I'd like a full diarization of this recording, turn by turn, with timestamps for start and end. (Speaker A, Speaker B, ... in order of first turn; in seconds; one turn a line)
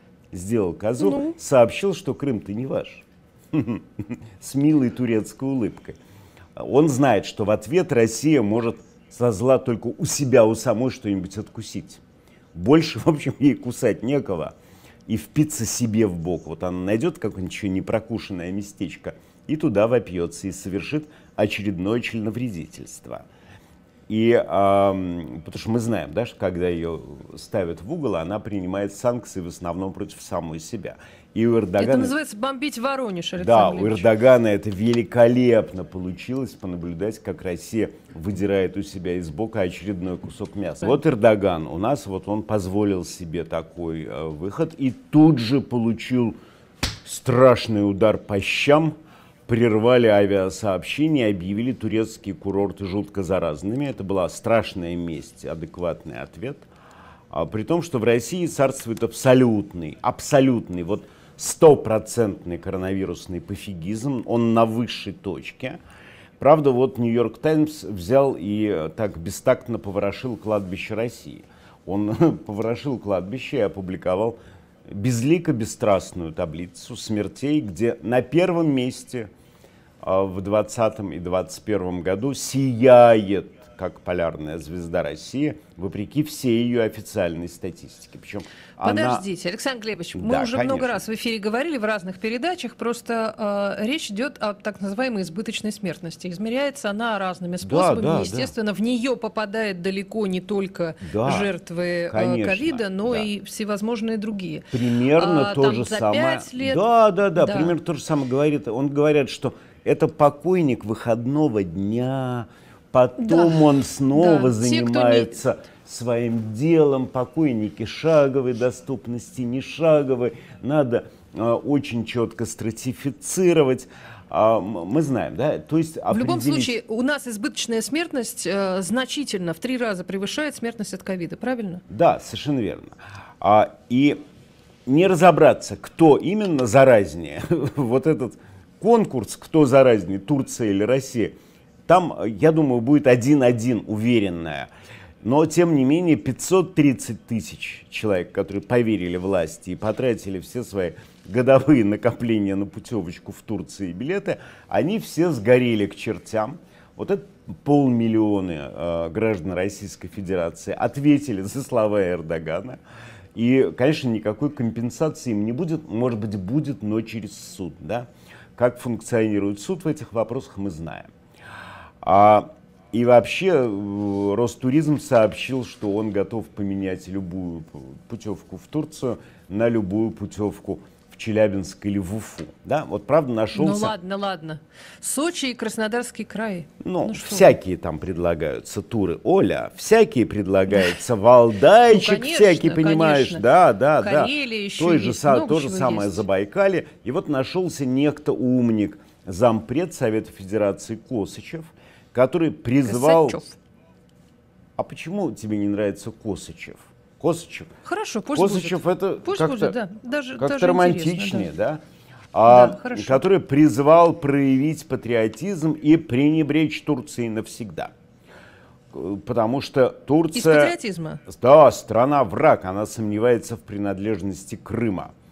Speaker A: 0.3-6.0
Speaker B: 1.0-1.4
Speaker A: 6.6-12.0
Speaker A: 12.5-14.6
Speaker A: 15.1-23.3
Speaker A: 24.1-32.1
Speaker B: 31.8-34.1
Speaker A: 33.4-46.4
Speaker A: 47.0-49.0
Speaker A: 49.5-56.7
Speaker A: 57.3-65.8
Speaker A: 66.4-74.4
Speaker A: 74.9-79.3
Speaker A: 80.0-89.2
Speaker B: 88.8-106.8
Speaker A: 90.2-91.0
Speaker A: 97.6-98.5
Speaker A: 101.0-101.5
Speaker A: 102.1-103.3
Speaker A: 104.7-126.7
Speaker B: 107.4-107.8
Speaker B: 113.2-115.4
Speaker B: 126.1-131.8
Speaker A: 131.9-134.2
Speaker A: 134.9-141.3
Speaker A: 141.9-144.7
Speaker A: 145.2-162.8
Speaker A: 163.3-171.1
Speaker A: 172.0-183.9
Speaker B: 183.5-187.5
Speaker A: 186.8-203.4
Speaker B: 191.9-193.4
Speaker B: 194.0-196.2
Speaker B: 202.8-203.6
Speaker A: 204.8-207.7
Speaker B: 207.8-211.5
Speaker A: 208.3-209.8
Speaker A: 210.4-211.8
Speaker A: 212.3-217.9
Speaker B: 212.5-213.2
Speaker A: 218.9-220.7
Speaker B: 220.3-221.2
Speaker A: 221.3-225.1